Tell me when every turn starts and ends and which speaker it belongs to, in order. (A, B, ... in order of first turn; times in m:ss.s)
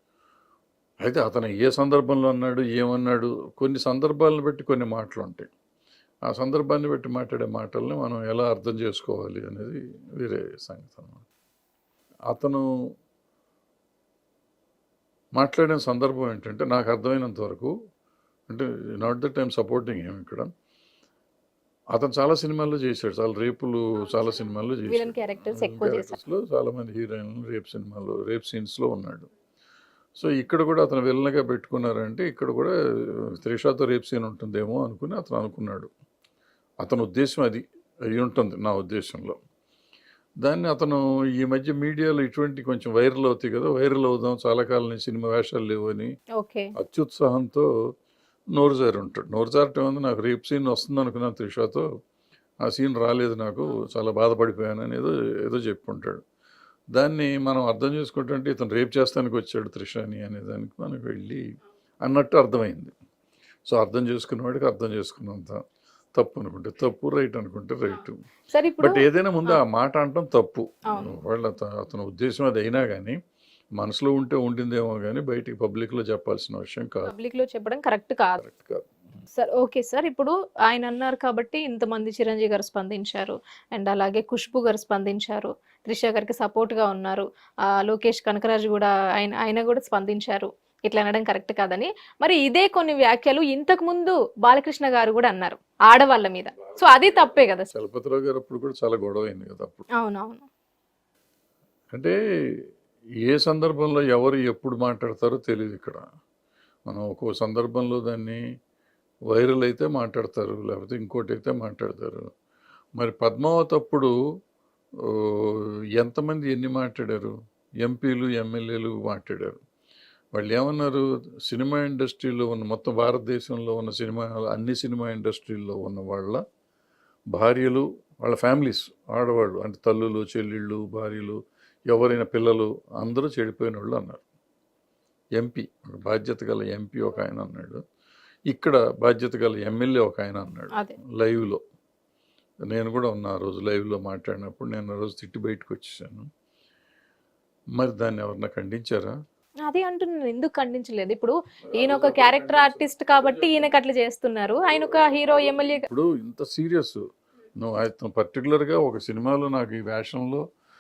0:01.0-0:05.5 A
0:06.3-0:11.2 A
0:12.3-0:12.6 A
0:15.4-0:17.7 A
0:18.5-0:20.5 A
0:21.9-0:29.3 A
0:24.9-0:26.2 B
0:30.2-0:32.7 A
0:33.2-0:35.9 A
0:36.8-0:39.4 A
0:40.4-0:46.1 A
0:46.4-0:46.7 B
0:46.8-0:47.7 A
0:48.5-0:51.8 A
0:52.7-0:56.2 A
0:56.9-1:01.4 A
1:02.0-1:02.9 A
1:03.7-1:05.6 A
1:06.2-1:08.2 A
1:08.5-1:09.6 B
1:08.8-1:13.2 A
1:13.8-1:17.1 A
1:17.1-1:18.4 B
1:18.4-1:18.9 A
1:19.3-1:37.7 B
1:37.1-1:39.9 A
1:40.0-1:40.4 B
1:43.2-1:46.0 A
1:46.9-1:48.4 A
1:49.3-1:52.3 A
1:53.0-1:54.1 A
1:55.0-1:59.6 A
2:00.3-2:06.4 A
2:07.3-2:11.4 A
2:11.9-2:14.2 A
2:15.4-2:17.8 A
2:18.5-2:21.6 A
2:22.7-2:26.3 A
2:27.8-2:29.1 A
2:29.7-2:35.8 B
2:31.7-2:33.7 A
2:34.7-2:37.0 A
2:37.6-2:40.4 A